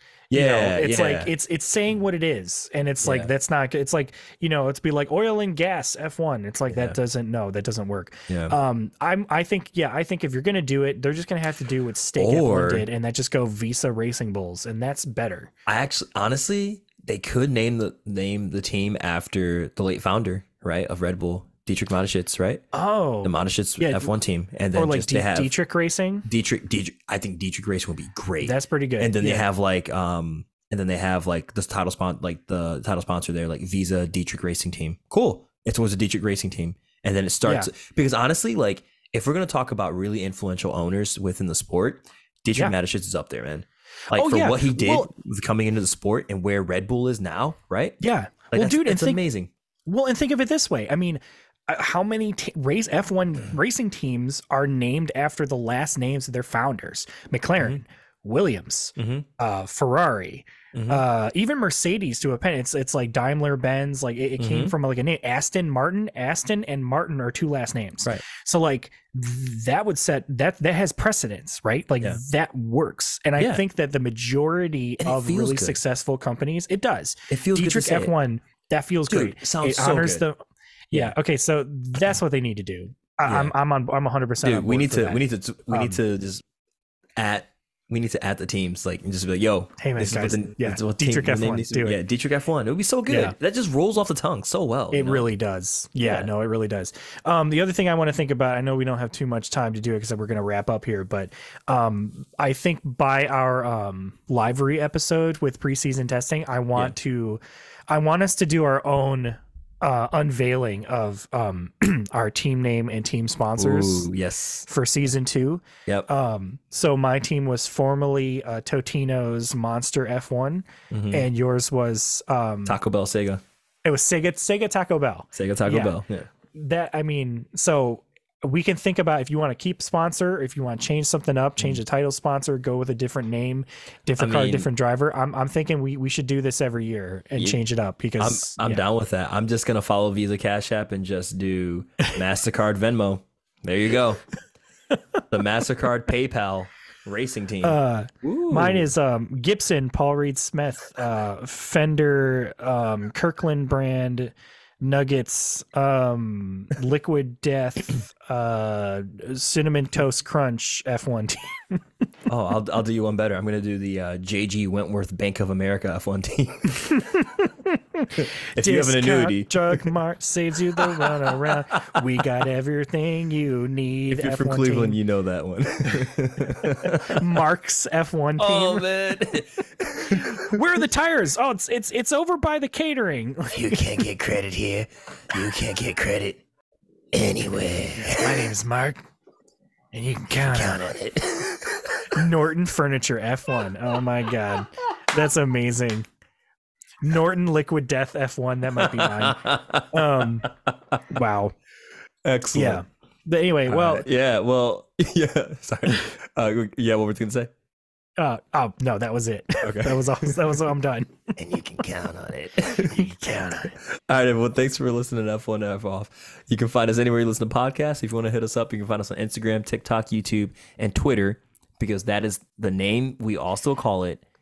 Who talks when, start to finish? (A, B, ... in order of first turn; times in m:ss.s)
0:00.3-0:01.3 A
0:00.3-0:15.5 B
0:03.0-0:03.3 A
0:06.7-0:07.0 A
0:08.3-0:08.6 A
0:12.2-0:12.9 A
0:15.7-0:22.6 A
0:22.7-0:24.2 B
0:23.2-0:25.5 A
0:24.7-0:26.3 B
0:26.2-0:48.0 A
0:28.4-0:29.5 B
0:37.5-0:37.7 B
0:44.1-0:45.1 B
0:48.0-0:49.2 B
0:48.5-0:49.5 A
0:49.9-1:20.4 B
0:59.0-0:59.3 A
1:00.7-1:01.0 A
1:04.4-1:04.7 A
1:15.0-1:15.8 A
1:17.3-1:18.1 A
1:19.1-1:20.2 A
1:20.9-1:26.0 B
1:23.3-1:23.5 A
1:24.4-1:26.4 A
1:27.2-1:35.3 A
1:29.8-1:32.0 B
1:33.1-1:33.4 B
1:34.9-1:54.1 B
1:36.0-1:36.3 A
1:53.6-1:54.7 A
1:54.7-2:02.8 B
2:00.9-2:01.3 A
2:02.7-2:03.4 A
2:03.8-2:06.0 B
2:05.3-2:06.3 A
2:06.5-2:18.8 B
2:14.2-2:14.7 A
2:18.2-2:24.2 A
2:25.3-2:28.9 A
2:27.6-2:41.8 B
2:42.3-2:47.1 A
2:46.9-2:55.0 B
2:48.2-2:49.9 A
2:50.8-2:52.3 A
2:54.1-2:57.4 A
2:56.5-2:58.9 B
2:58.4-3:00.8 A
3:00.0-3:04.0 B
3:03.5-3:06.4 A
3:07.1-3:08.5 A
3:08.0-3:09.0 B
3:09.9-3:10.9 B
3:10.5-3:12.2 A
3:12.1-3:16.1 B
3:17.0-3:20.5 B
3:18.8-3:21.0 A
3:21.1-3:21.6 B
3:22.2-3:22.8 A
3:22.6-3:24.1 B
3:23.7-3:27.5 A
3:28.2-3:31.3 B
3:29.6-3:30.4 A
3:31.4-3:44.2 A
3:32.9-3:33.7 B